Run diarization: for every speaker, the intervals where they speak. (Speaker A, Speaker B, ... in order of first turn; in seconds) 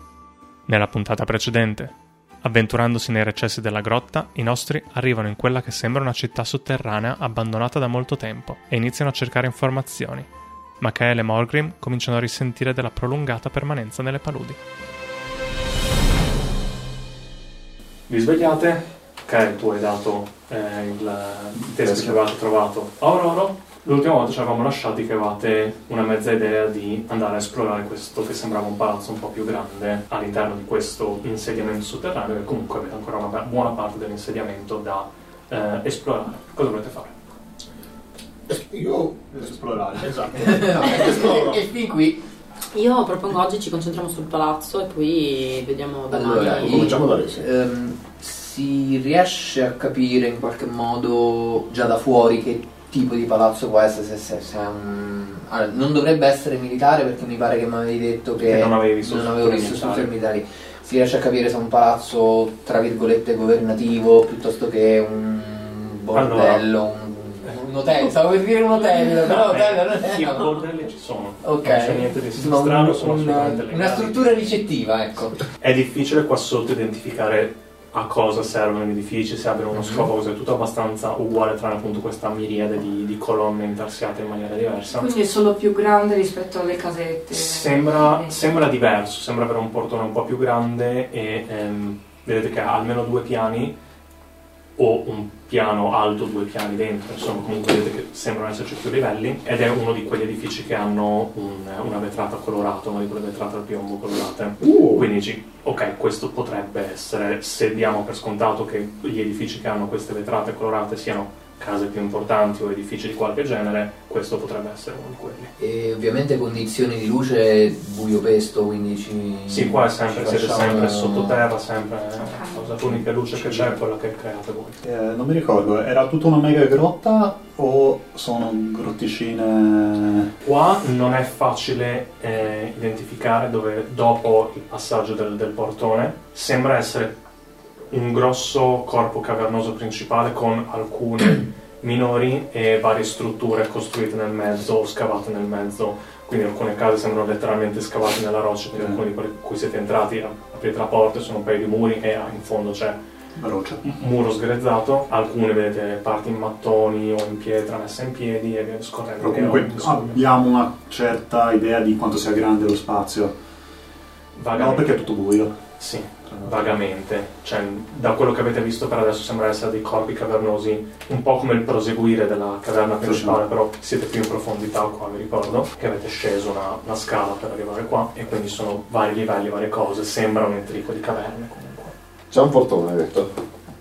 Speaker A: 0.7-10.3, 10.8-14.6, 18.1-37.1, 58.4-60.1, 66.1-66.7, 69.3-74.2, 75.6-85.1, 87.3-93.8, 94.8-115.5, 119.5-124.8, 130.4-137.2, 137.9-153.0, 153.8-160.2, 164.3-165.0, 165.8-181.9
Speaker B: 21.6-22.2, 39.3-40.8, 123.4-123.7, 124.8-130.3, 148.8-149.0, 153.4-153.8, 159.2-163.3, 164.5-165.6, 166.3-166.8, 173.0-173.4
Speaker C: 38.5-39.4, 40.0-41.6, 46.4-47.5, 104.6-105.1, 182.3-183.3
Speaker D: 40.4-42.2, 46.1-70.6, 71.4-75.4, 115.6-121.4
Speaker E: 42.7-47.0
Speaker F: 84.9-88.5